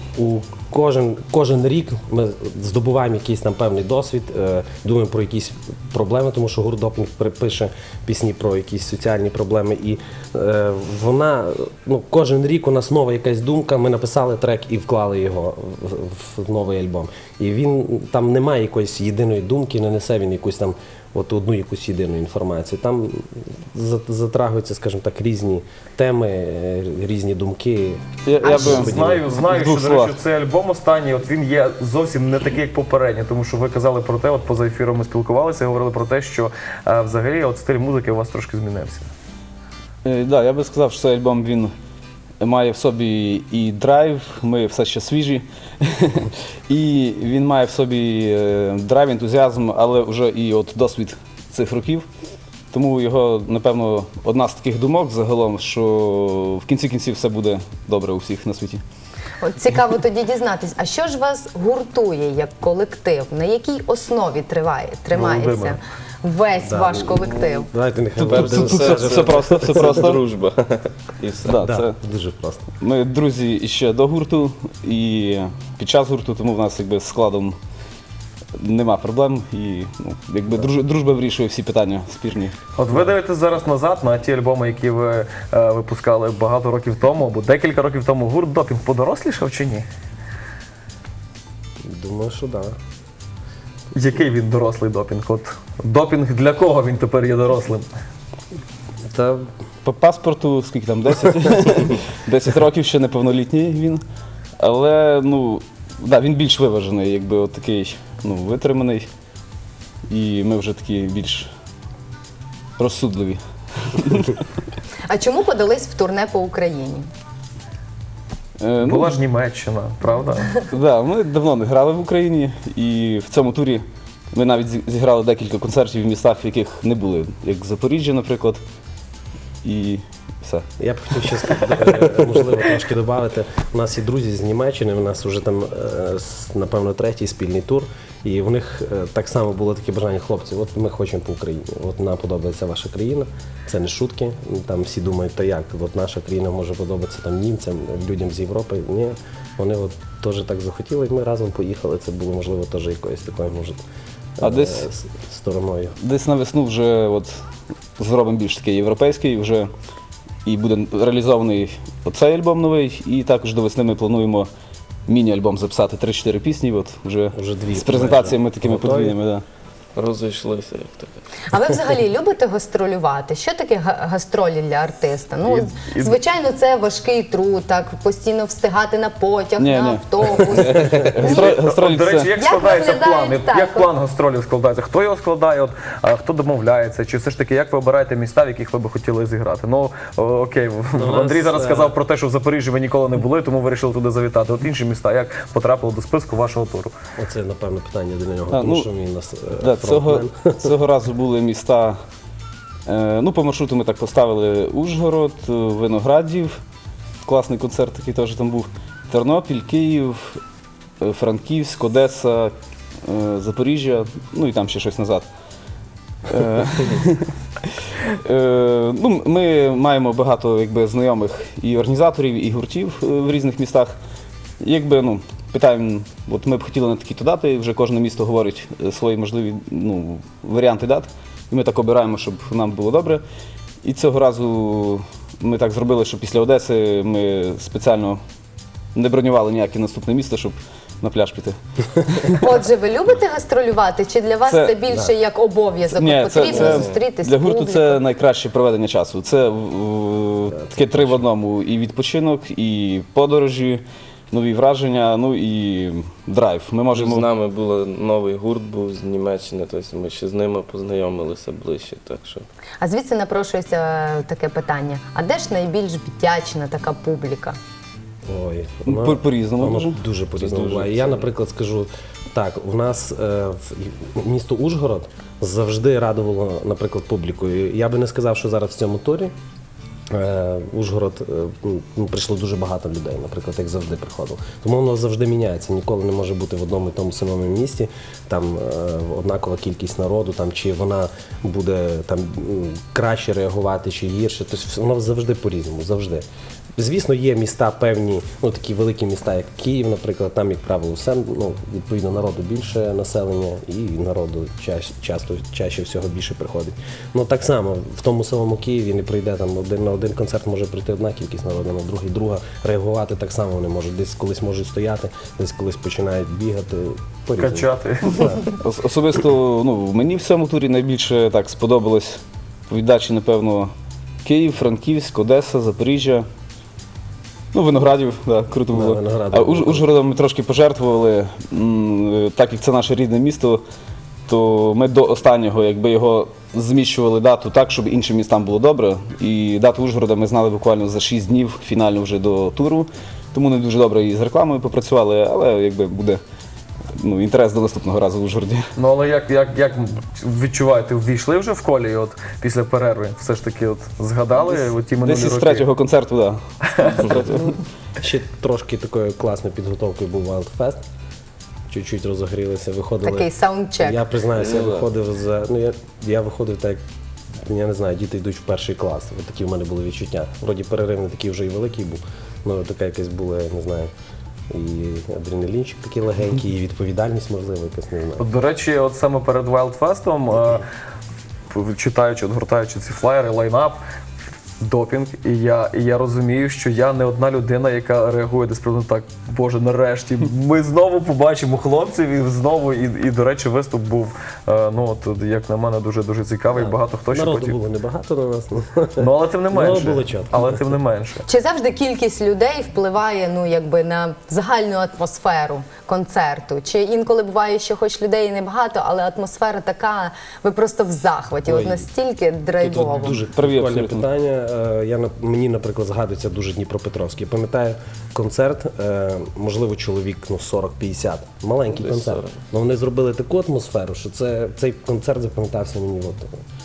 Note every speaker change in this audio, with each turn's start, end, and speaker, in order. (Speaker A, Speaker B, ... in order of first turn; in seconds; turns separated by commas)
Speaker A: 0.1-29.3, Speaker B: 28.2-30.2, Speaker C: 28.4-28.8, Speaker D: 28.6-39.1, Speaker B: 40.0-41.7, Speaker B: 42.4-52.0, Speaker B: 52.7-58.8, Speaker C: 59.4-67.7, Speaker D: 65.3-65.7, Speaker A: 66.7-69.6, Speaker B: 68.2-70.2, Speaker E: 68.3-71.6, Speaker B: 71.5-72.0, Speaker A: 71.6-72.7, Speaker B: 72.8-77.6, Speaker B: 78.6-82.5, Speaker D: 82.8-89.9, Speaker A: 91.8-92.7, Speaker D: 93.9-97.9, Speaker A: 99.1-99.5, Speaker B: 99.8-104.0, Speaker B: 104.6-109.1, Speaker B: 110.1-111.5, Speaker B: 112.8-114.4, Speaker C: 115.1-117.1, Speaker B: 118.6-119.1, Speaker D: 118.8-120.6, Speaker B: 120.7-128.6, Speaker B: 129.6-130.7, Speaker A: 130.8-153.8, Speaker B: 131.4-131.9, Speaker A: 154.4-155.9, Speaker B: 154.4-154.9, Speaker B: 156.0-157.4, Speaker B: 158.0-159.7, Speaker B: 160.4-164.5, Speaker B: 165.1-169.4, Speaker A: 167.3-169.1, Speaker E: 169.9-171.2, Speaker C: 171.5-181.6, Speaker D: 175.5-176.2, Speaker B: 179.6-182.3, Speaker D: 181.2-196.9, Speaker C: 182.3-183.9, Speaker A: 190.9-191.9, Speaker A: 197.2-200.7, Speaker B: 198.5-198.9, Speaker B: 199.6-202.0, Speaker B: 202.8-206.6, Speaker B: 207.2-210.4, Speaker B: 211.0-212.5, Speaker B: 213.0-215.2, Speaker B: 216.3-223.9, Speaker B: 224.6-233.2, Speaker B: 233.8-238.2, Speaker B: 238.9-241.6, Speaker C: 242.3-248.0, Speaker B: 244.5-244.8, Speaker B: 245.9-257.3, Speaker A: 246.5-246.9, Speaker A: 250.6-251.3, Speaker E: 256.9-262.5, Speaker C: 262.8-267.6, Speaker A: 268.2-279.3, Speaker B: 268.9-271.2, Speaker A: 280.1-296.2, Speaker A: 296.8-318.4, Speaker D: 317.4-318.3, Speaker B: 318.6-323.7, Speaker B: 324.2-326.2, Speaker B: 327.5-333.6, Speaker A: 328.7-329.9, Speaker B: 334.3-346.2, Speaker B: 347.0-348.7, Speaker D: 348.8-355.7, Speaker B: 354.4-356.4, Speaker D: 356.7-357.1, Speaker B: 357.0-357.6, Speaker A: 358.0-360.8, Speaker A: 361.7-363.3, Speaker C: 363.0-364.1, Speaker A: 363.8-366.8, Speaker A: 367.4-373.9, Speaker A: 374.5-378.2, Speaker D: 378.2-380.6, Speaker D: 381.5-383.8, Speaker D: 384.6-397.6, Speaker A: 396.5-400.6, Speaker D: 399.0-401.2, Speaker C: 401.2-413.2, Speaker A: 411.5-411.9, Speaker A: 412.6-426.3, Speaker B: 413.3-414.1, Speaker E: 421.7-422.3